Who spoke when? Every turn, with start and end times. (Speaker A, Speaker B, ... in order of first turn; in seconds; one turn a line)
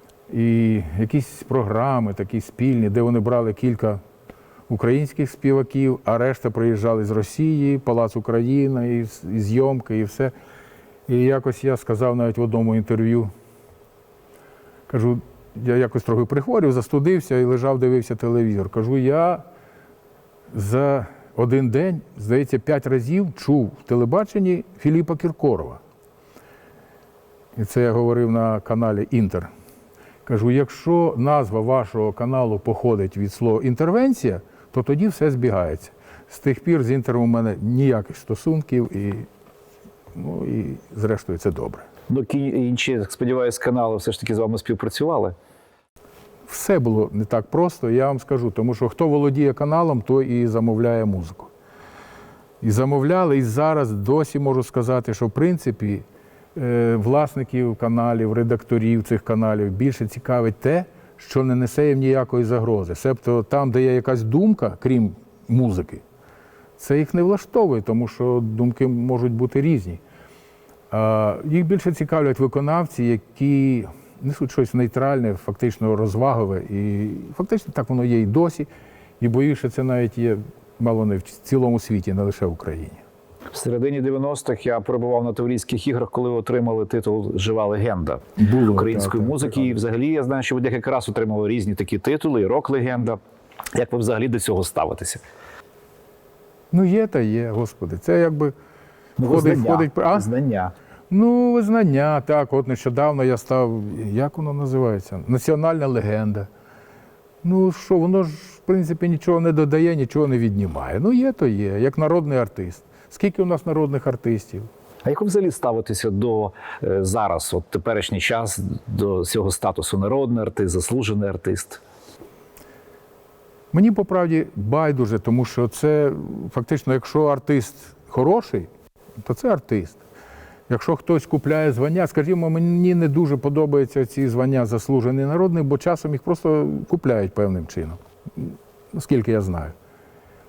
Speaker A: 0.3-4.0
Speaker A: 4.7-10.3
Speaker A: 11.1-13.3
Speaker A: 14.9-19.4
Speaker A: 20.5-25.8
Speaker A: 27.6-29.5
Speaker A: 30.2-39.3
Speaker A: 40.1-41.8
Speaker B: 42.1-45.4
Speaker A: 46.5-51.5
Speaker A: 52.6-56.0
Speaker A: 56.5-66.0
Speaker A: 66.8-70.0
Speaker A: 70.9-78.7
Speaker A: 79.2-83.0
Speaker B: 83.5-93.2
Speaker A: 88.4-89.8
Speaker B: 93.7-95.2
Speaker A: 96.7-98.5
Speaker B: 99.2-100.7
Speaker A: 99.2-100.3
Speaker A: 101.1-106.5
Speaker A: 107.4-114.7
Speaker B: 115.0-121.8
Speaker A: 123.7-128.7
Speaker A: 129.2-130.0
Speaker A: 130.7-139.7